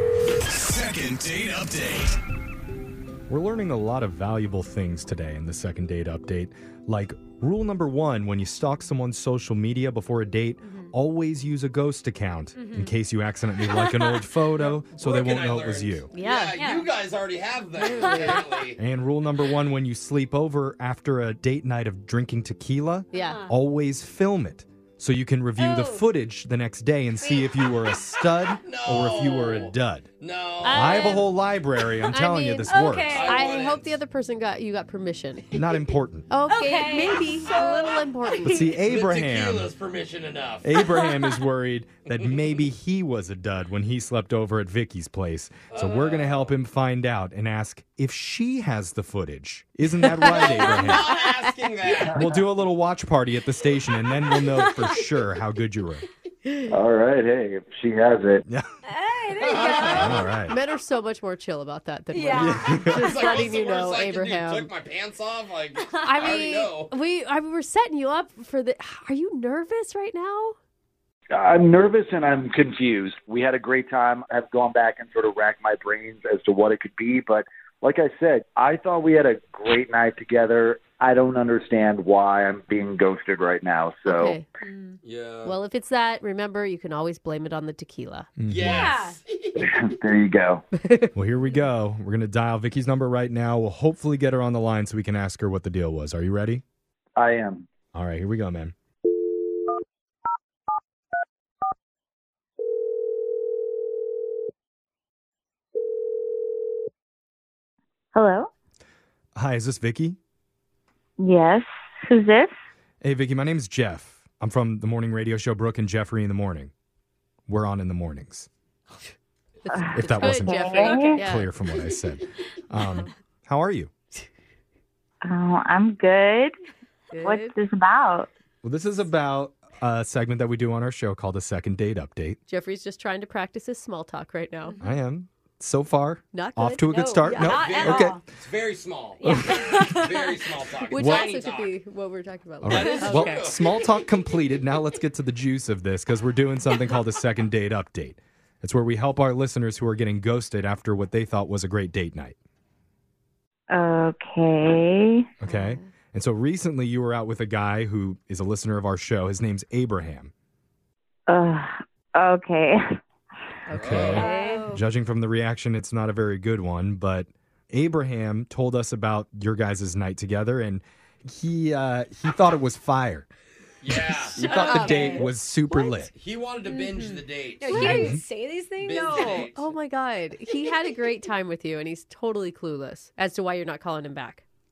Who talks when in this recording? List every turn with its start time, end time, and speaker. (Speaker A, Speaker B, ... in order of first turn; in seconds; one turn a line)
Speaker A: 0.5-2.2
Speaker A: 3.3-16.1
Speaker B: 12.6-12.9
Speaker B: 13.7-14.2
Speaker C: 14.5-18.8
Speaker D: 16.1-16.6
Speaker B: 16.5-16.8
Speaker D: 17.8-18.4
Speaker A: 18.8-30.1
Speaker D: 23.1-23.4
Speaker B: 23.2-23.5
Speaker B: 25.6-26.1
Speaker B: 27.2-27.6
Speaker C: 28.6-31.2
Speaker D: 30.6-31.3
Speaker A: 30.7-33.2
Speaker D: 32.1-35.5
Speaker B: 32.7-33.2
Speaker C: 33.1-33.9
Speaker A: 35.5-36.3
Speaker D: 36.3-38.8
Speaker B: 36.5-38.1
Speaker A: 38.4-39.7
Speaker C: 38.8-41.1
Speaker A: 40.6-51.2
Speaker C: 45.7-46.5
Speaker D: 50.0-51.3
Speaker C: 50.3-52.3
Speaker E: 52.0-52.4
Speaker A: 52.1-56.0
Speaker D: 56.5-56.7
Speaker E: 56.7-58.4
Speaker B: 58.9-60.2
Speaker C: 59.4-60.3
Speaker A: 59.8-60.6
Speaker D: 60.1-64.7
Speaker B: 62.1-62.8
Speaker A: 62.3-63.1
Speaker C: 62.9-66.9
Speaker D: 66.0-70.6
Speaker E: 71.3-84.4
Speaker D: 84.0-84.5
Speaker B: 84.6-85.0
Speaker C: 85.0-85.6
Speaker D: 85.5-88.3
Speaker A: 88.4-88.9
Speaker C: 88.5-89.6
Speaker B: 88.7-89.2
Speaker E: 89.6-90.6
Speaker D: 90.8-91.1
Speaker A: 91.2-96.6
Speaker E: 97.2-97.7
Speaker A: 97.9-98.7
Speaker F: 108.1-108.5
Speaker A: 109.4-110.2
Speaker F: 111.2-112.5
Speaker A: 113.0-116.7
Speaker A: 117.5-118.5
Speaker D: 119.6-121.5
Speaker F: 119.7-121.2
Speaker A: 119.9-123.9
Speaker F: 125.2-126.5
Speaker D: 127.1-127.5
Speaker F: 127.2-128.3
Speaker A: 128.6-132.4
Speaker D: 132.5-134.8
Speaker A: 134.8-138.2
Speaker D: 136.3-137.7
Speaker B: 137.3-138.2
Speaker C: 137.5-141.7
Speaker A: 139.2-139.6
Speaker D: 139.2-143.5
Speaker A: 140.9-141.2
Speaker A: 142.6-152.3
Speaker C: 142.7-143.7
Speaker F: 153.7-155.3
Speaker A: 155.4-160.3
Speaker D: 155.4-155.8
Speaker F: 161.3-162.8
Speaker D: 163.7-164.7
Speaker A: 163.7-173.3
Speaker C: 163.7-164.2
Speaker F: 164.1-164.7
Speaker B: 164.3-164.6
Speaker C: 173.8-175.0
Speaker A: 174.3-176.1
Speaker D: 174.4-176.1
Speaker B: 174.4-175.2
Speaker C: 176.1-177.9
Speaker B: 176.7-179.4
Speaker D: 177.7-178.2
Speaker A: 177.7-178.2
Speaker C: 178.8-179.6
Speaker D: 179.2-184.4